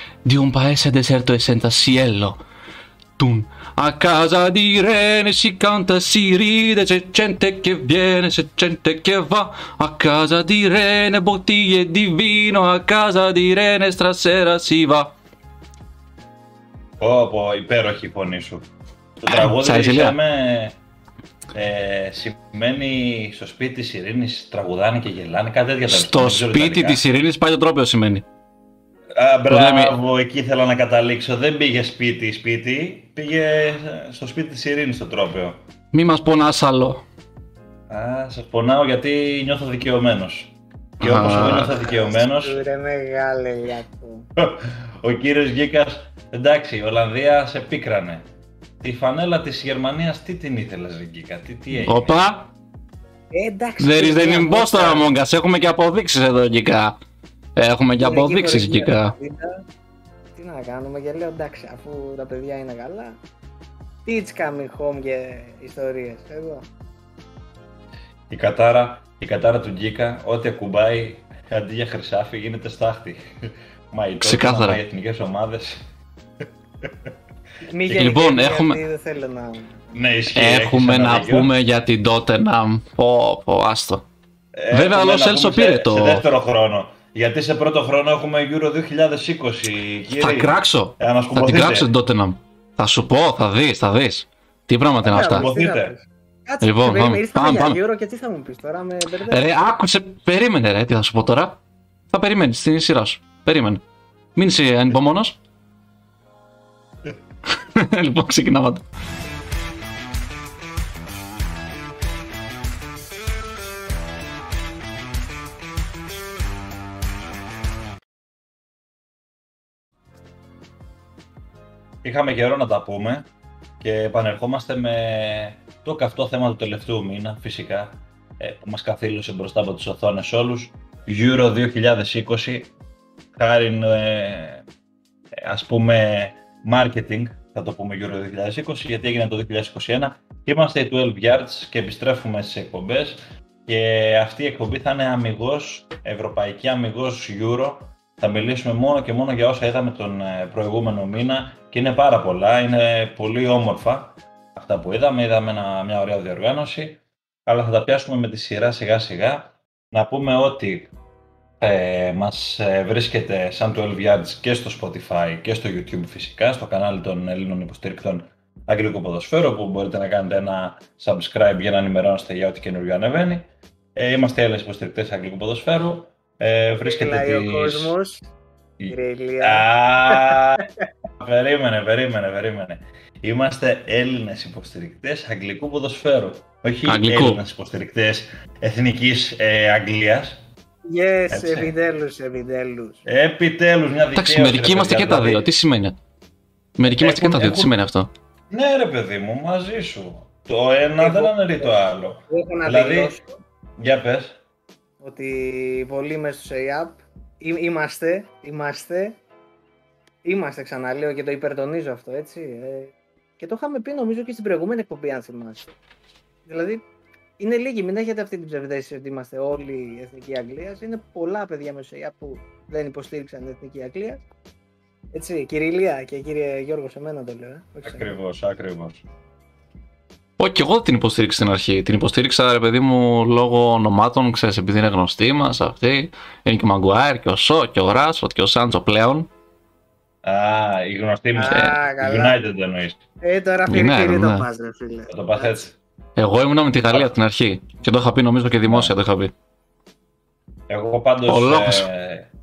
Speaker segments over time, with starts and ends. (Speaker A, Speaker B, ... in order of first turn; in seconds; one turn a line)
Speaker A: 0.2-2.4
Speaker A: 3.2-15.1
Speaker B: 17.0-20.8
Speaker A: 19.2-20.1
Speaker B: 21.5-27.0
Speaker A: 25.9-28.2
Speaker B: 29.1-35.6
Speaker A: 29.5-29.9
Speaker A: 35.9-37.0
Speaker B: 37.9-42.6
Speaker A: 41.0-41.7
Speaker C: 41.7-44.3
Speaker B: 44.4-48.2
Speaker B: 48.8-52.2
Speaker A: 51.8-52.5
Speaker C: 53.3-55.1
Speaker A: 53.8-57.0
Speaker A: 57.5-59.1
Speaker C: 58.0-59.6
Speaker C: 60.3-63.2
Speaker C: 64.0-66.7
Speaker B: 68.3-75.9
Speaker A: 74.2-74.8
Speaker B: 76.8-77.1
Speaker C: 77.6-79.8
Speaker A: 77.9-78.8
Speaker B: 79.9-81.5
Speaker A: 80.3-84.0
Speaker B: 84.5-91.9
Speaker A: 84.7-86.2
Speaker A: 90.2-95.5
Speaker C: 95.0-99.6
Speaker B: 95.0-96.0
Speaker A: 96.6-97.8
Speaker A: 99.3-101.6
Speaker A: 102.1-103.8
Speaker A: 104.3-105.4
Speaker A: 107.5-108.8
Speaker B: 122.0-123.3
Speaker B: 123.8-132.7
Speaker B: 133.3-134.6
Speaker B: 135.4-160.9
Speaker B: 161.6-177.9
Speaker C: 176.8-178.3
Speaker B: 178.8-180.6
Speaker C: 178.9-180.6
Speaker B: 181.2-190.4
Speaker A: 186.9-187.4
Speaker C: 190.9-193.0
Speaker B: 191.3-191.7
Speaker B: 193.0-195.4
Speaker A: 194.1-195.9
Speaker A: 196.8-198.1
Speaker B: 196.9-197.7
Speaker B: 198.5-203.2
Speaker C: 201.0-203.2
Speaker B: 203.8-204.4
Speaker C: 205.0-209.2
Speaker C: 210.2-215.7
Speaker C: 216.4-216.8
Speaker C: 217.4-224.2
Speaker C: 225.1-228.2
Speaker B: 227.8-229.0
Speaker A: 230.4-239.3
Speaker B: 240.2-243.0
Speaker C: 241.3-242.4
Speaker A: 241.5-241.8
Speaker C: 243.2-245.7
Speaker A: 243.7-244.4
Speaker B: 245.1-245.8
Speaker A: 246.2-249.3
Speaker B: 246.9-247.2
Speaker B: 248.7-248.9
Speaker B: 250.7-252.3
Speaker A: 251.3-251.9